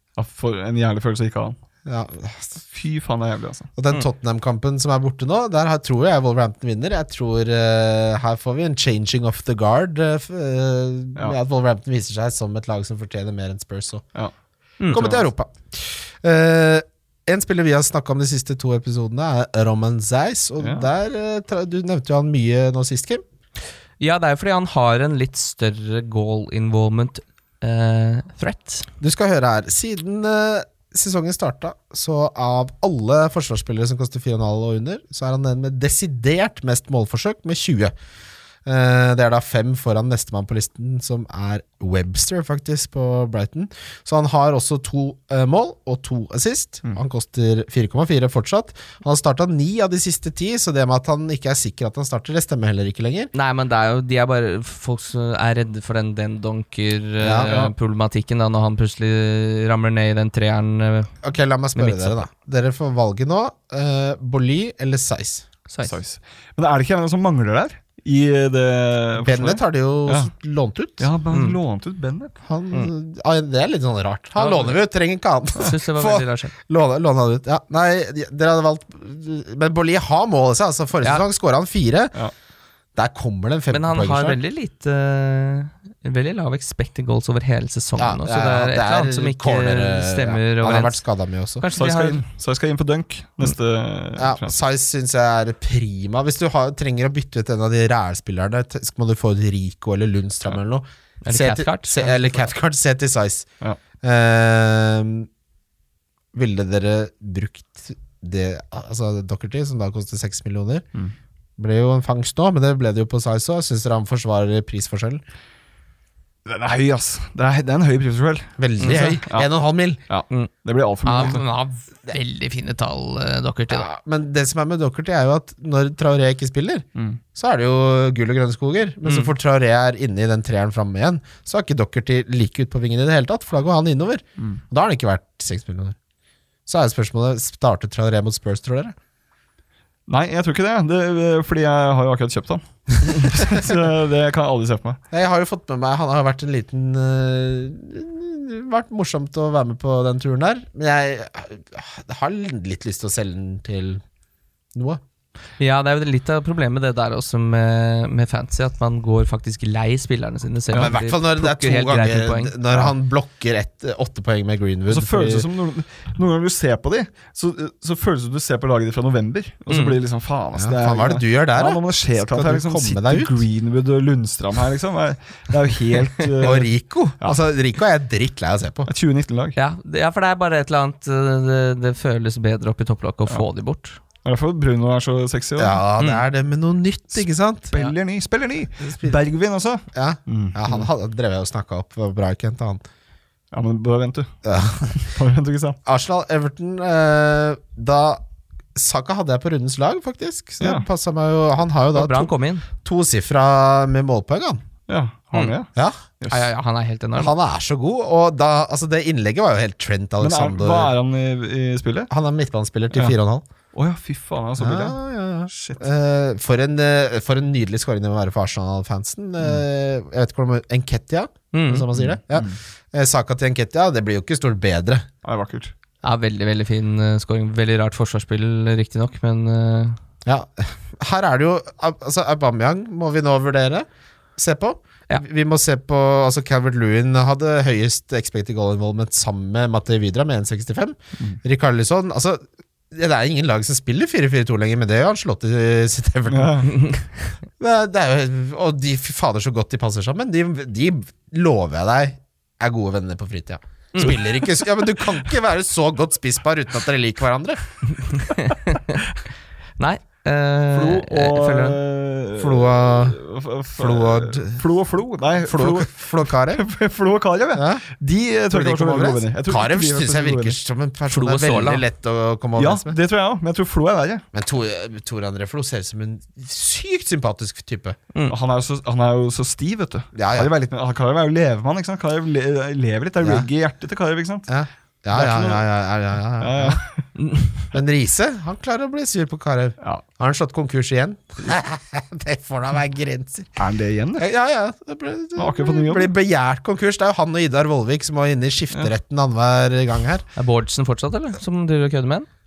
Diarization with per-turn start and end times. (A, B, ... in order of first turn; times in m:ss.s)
0:00.2-0:01.6 A
0:01.9-0:02.6 B
0:02.7-0:03.7 A
0:03.8-0:14.0 B
0:14.8-0:15.1 C
0:14.9-0:23.2 B
0:14.9-0:15.2 A
0:20.6-0:20.9 A
0:24.0-0:28.9 C
0:29.0-0:37.9 B
0:38.6-0:53.3 B
0:53.3-1:01.1 C
0:57.2-0:57.5 B
0:57.5-0:57.7 A
1:01.2-1:05.5 B
1:01.8-1:02.2 C
1:05.7-1:06.0 C
1:05.8-1:10.3 A
1:09.2-1:11.1 B
1:11.0-1:12.4 A
1:11.3-1:11.6 C
1:12.5-1:22.2 B
1:14.4-1:14.8 C
1:15.6-1:16.5 C
1:23.0-1:24.4 B
1:23.7-1:31.0 C
1:28.0-1:31.6 B
1:31.6-1:32.2 C
1:31.7-1:34.6 A
1:34.2-1:43.5 B
1:41.2-1:42.5 C
1:44.0-1:45.3 B
1:46.3-1:50.8 B
1:51.6-1:55.2 B
1:56.5-1:59.5 A
1:58.6-2:00.0 B
1:58.8-1:59.2 C
2:00.1-2:01.4 A
2:01.0-2:03.9 C
2:03.7-2:16.0 B
2:09.1-2:09.3 C
2:16.7-2:18.9 B
2:20.1-2:25.0 A
2:25.1-2:34.0 B
2:34.7-2:35.0 B
2:35.6-2:42.9 C
2:40.7-2:45.5 B
2:44.9-2:57.4 A
2:49.7-2:50.0 C
2:50.5-2:53.4 B
2:56.4-2:58.9 B
2:58.9-2:59.6 A
2:59.6-3:04.0 C
3:04.2-3:05.8 A
3:05.6-3:07.7 B
3:07.7-3:10.9 A
3:08.8-3:09.2 B
3:09.9-3:12.8 B
3:13.5-3:14.3 A
3:14.4-3:15.0 B
3:14.9-3:15.8 A
3:15.9-3:18.2 B
3:18.8-3:24.6 B
3:20.6-3:20.9 A
3:21.9-3:22.7 C
3:24.9-3:25.7 A
3:25.8-3:26.0 B
3:26.2-3:26.5 A
3:26.3-3:27.3 C
3:27.2-3:30.9 B
3:30.2-3:32.1 A
3:32.1-3:33.4 B
3:33.7-3:35.9 A
3:34.6-3:45.1 B
3:41.5-3:41.9 C
3:42.0-3:42.6 A
3:45.2-3:45.7 A
3:46.0-3:50.0 C
3:50.2-3:53.9 B
3:54.4-4:06.7 B
4:06.3-4:06.7 A
4:07.6-4:17.6 B
4:13.9-4:14.2 C
4:18.0-4:19.0 C
4:19.8-4:21.8 C
4:20.7-4:30.6 A
4:22.4-4:23.2 B
4:23.8-4:24.6 B
4:25.4-4:26.6 B
4:27.5-4:27.8 B
4:28.5-4:33.0 B
4:31.1-4:31.8 C
4:32.6-4:34.2 A
4:34.3-4:38.0 B
4:38.3-4:44.5 A
4:40.2-4:40.5 B
4:43.2-4:43.5 B
4:44.5-4:46.8 B
4:45.1-4:45.6 A
4:46.4-4:47.1 A
4:47.2-4:47.5 C
4:47.7-4:53.6 B
4:53.6-4:54.3 A
4:54.2-5:00.2 B
4:55.4-4:56.1 A
5:00.4-5:02.3 C